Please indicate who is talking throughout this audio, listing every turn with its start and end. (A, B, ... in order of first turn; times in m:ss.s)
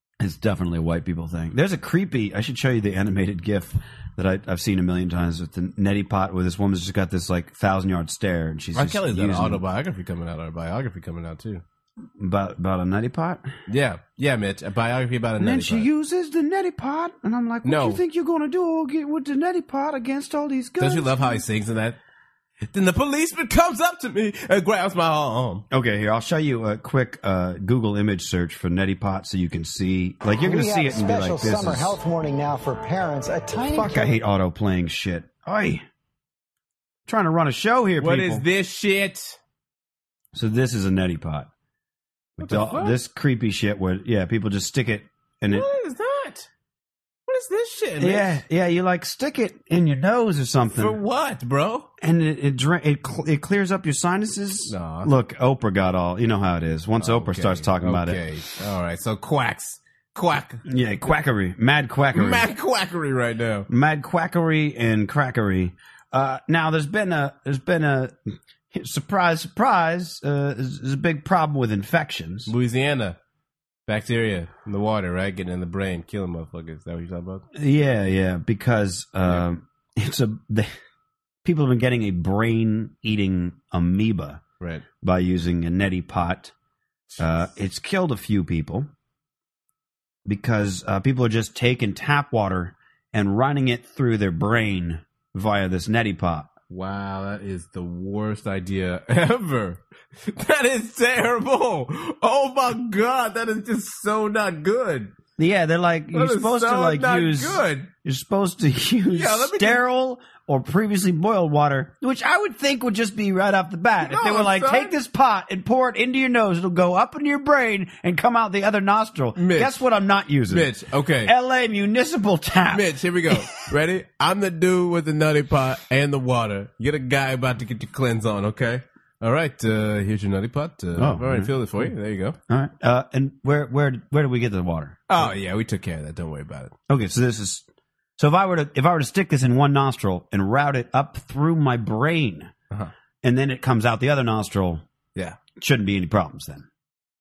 0:00.2-0:09.6 A
0:08.8-0:11.6 B
0:12.2-0:13.5 A
0:13.7-0:15.9 B
0:15.4-0:21.4 A
0:17.6-0:18.0 B
0:20.8-0:22.0 B
0:22.7-0:25.6 B
0:25.7-0:32.0 A
0:30.4-0:34.2 C
0:33.7-0:35.8 A
0:37.1-0:38.4 A
0:38.0-0:39.4 B
0:40.3-0:41.5 A
0:42.4-0:45.7 A
0:42.4-0:43.0 B
0:45.5-0:46.5 B
0:47.3-0:48.4 B
0:48.0-0:51.0 A
0:50.8-0:51.9 B
0:52.0-0:58.2 A
0:54.7-0:55.1 B
0:57.0-1:00.6 B
1:00.6-1:02.5 A
1:02.1-1:03.7 B
1:03.7-1:08.2 A
1:08.7-1:12.5 A
1:12.5-1:13.2 B
1:13.9-1:17.4 B
1:17.6-1:20.7 A
1:21.4-1:24.4 A
1:24.6-1:24.8 B
1:25.0-1:26.5 A
1:27.2-1:28.9 A
1:30.3-1:36.5 A
1:36.7-1:45.1 B
1:45.4-2:00.7 A
1:46.1-1:47.9 B
1:49.1-1:49.8 B
1:54.0-1:55.0 B
1:59.4-1:59.8 B
2:00.5-2:01.3 B
2:01.2-2:03.6 A
2:02.7-2:12.4 B
2:11.0-2:11.9 A
2:12.5-2:15.3 A
2:15.1-2:16.7 B
2:16.9-2:17.7 A
2:18.2-2:22.5 A
2:23.2-2:24.8 A
2:25.6-2:26.7 A